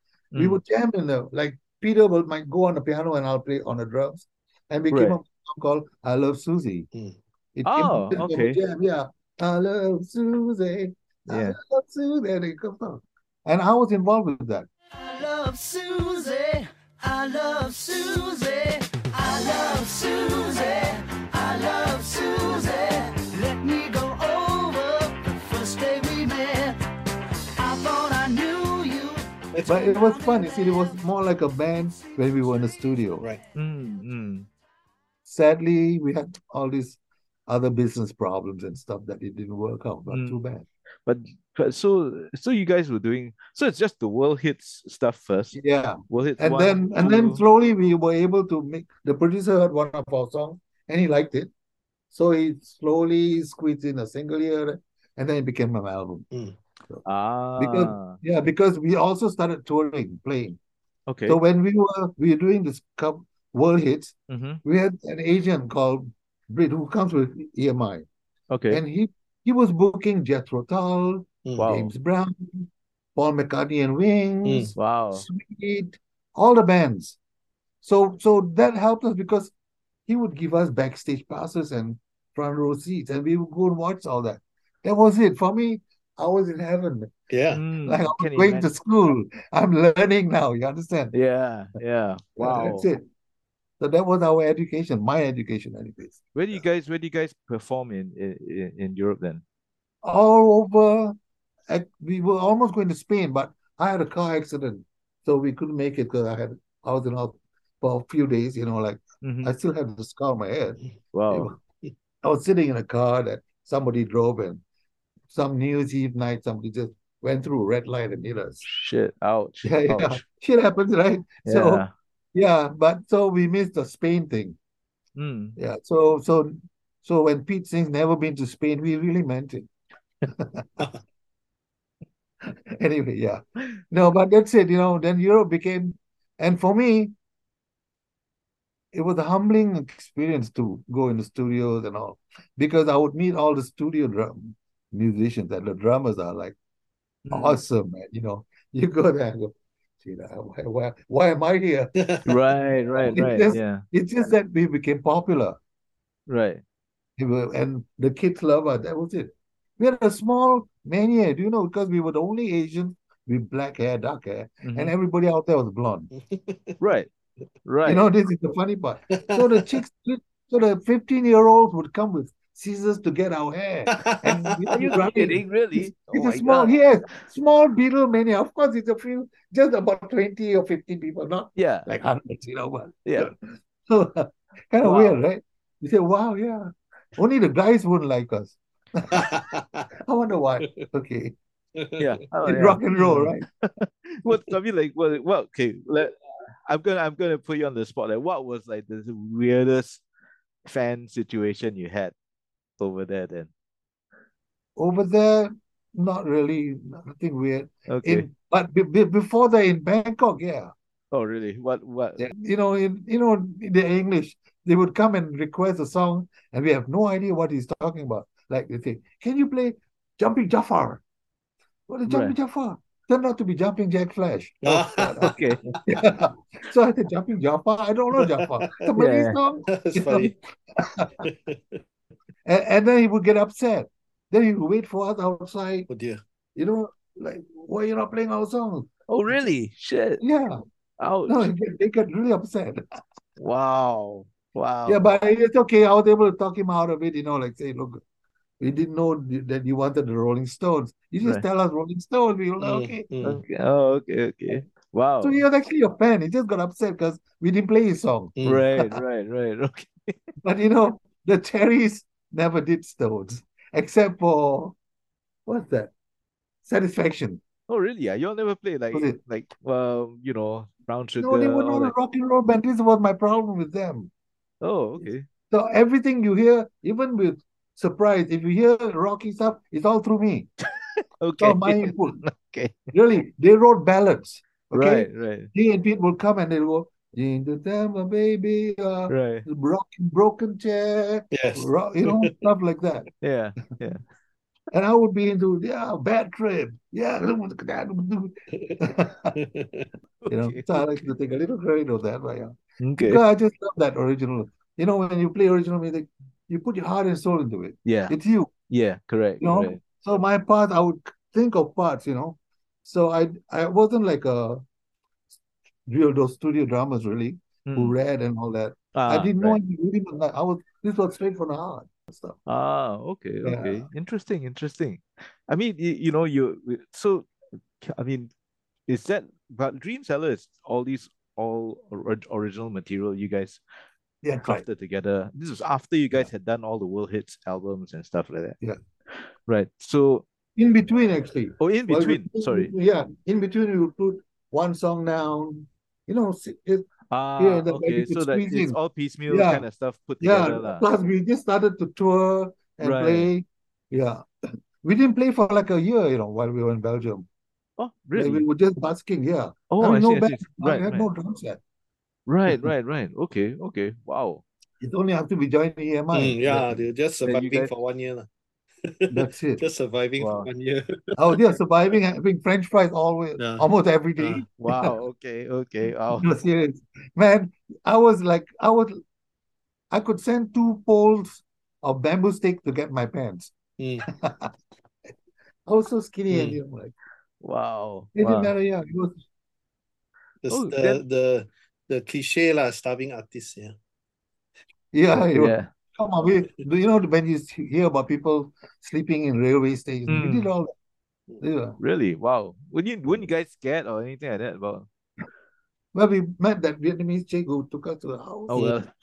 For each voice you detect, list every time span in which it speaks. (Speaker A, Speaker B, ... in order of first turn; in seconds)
Speaker A: 0.3-0.6, 4.9-5.2, 7.7-8.6, 11.3-11.6, 33.5-34.5, 40.1-40.4, 41.1-45.6, 46.1-47.4, 57.0-58.2, 61.1-61.4, 64.3-64.6, 68.5-68.8, 71.6-71.9, 74.8-75.3, 87.5-88.7, 91.1-92.9, 96.3-99.4, 109.2-109.5, 111.1-111.5, 118.6-120.2, 121.5-121.9, 125.2-125.6, 147.3-147.6, 152.3-153.8, 156.3-156.6, 164.6-164.9, 166.8-167.1, 167.7-168.0, 174.6-176.8, 181.6-181.9, 183.1-183.3, 184.8-185.2, 192.0-200.0, 200.7-202.1, 202.8-203.5, 207.9-208.3, 211.1-212.3, 222.1-222.3, 225.2-225.8, 228.9-229.4, 239.1-240.2, 241.0-241.5, 243.4-245.1, 253.2-255.4, 258.4-260.2, 267.7-271.9, 274.6-275.3, 281.2-282.9, 284.7-285.5, 289.1-289.5, 293.2-294.0, 300.2-300.9, 302.8-303.2, 307.9-308.1, 308.7-309.8, 317.7-317.9, 318.9-319.6, 322.5-328.3, 328.9-333.6, 334.4-338.6, 339.4-340.2, 341.6-342.7, 347.1-350.9, 352.8-353.3, 357.8-358.4, 359.7-361.1, 362.3-364.4, 367.2-367.7, 370.2-370.5, 374.6-376.3, 387.4-388.5, 390.5-391.0, 395.2-395.7, 400.1-400.5, 401.8-404.9, 408.5-408.9
Speaker B: 0.3-6.9, 7.5-14.7, 29.7-33.3, 35.3-40.6, 45.5-51.5, 52.1-56.3, 57.6-60.6, 61.3-68.1, 68.7-77.2, 77.8-79.5, 80.1-87.1, 87.8-91.2, 92.4-93.0, 93.8-96.2, 100.0-101.2, 101.7-111.6, 112.2-114.6, 115.3-118.7, 119.6-124.6, 125.6-129.7, 130.3-130.9, 132.4-137.1, 138.9-146.6, 147.3-152.0, 153.0-155.6, 157.2-166.1, 167.8-189.3, 190.0-191.3, 192.4-193.4, 204.8-210.7, 212.2-221.0, 221.9-231.2, 232.4-235.9, 236.6-238.9, 240.2-240.6, 241.3-242.8, 244.9-248.0, 248.6-253.1, 255.2-258.9, 260.4-264.8, 265.5-265.9, 266.6-267.4, 268.9-269.2, 271.2-274.1, 275.5-280.5, 281.4-282.2, 282.9-293.1, 294.7-299.4, 300.3-308.5, 309.4-314.6, 315.9-322.4, 323.4-323.9, 334.2-334.6, 340.6-346.9, 347.4-348.8, 349.3-349.6, 350.2-354.2, 354.8-357.3, 358.1-361.6, 364.8-366.9, 369.1-369.6, 371.2-374.9, 376.1-379.0, 379.9-383.5, 384.1-384.5, 385.7-386.9, 388.1-389.2, 394.9-400.7, 401.4-401.8, 405.9-408.7
Speaker C: 6.9-7.2, 29.5-29.9, 56.3-56.6, 74.5-74.7, 87.3-87.6, 152.0-152.2, 166.2-166.8, 169.2-169.7, 173.9-174.3, 189.1-189.8, 191.8-192.1, 224.6-225.4, 228.2-228.7, 229.7-230.3, 231.2-231.8, 235.9-236.2, 252.6-253.4, 258.4-258.6, 291.3-292.3, 298.5-298.8, 299.4-299.9, 366.1-368.3, 368.8-371.5, 373.4-373.6, 374.2-374.5, 383.8-384.1, 390.4-393.8
Speaker D: 15.0-26.8, 27.6-31.0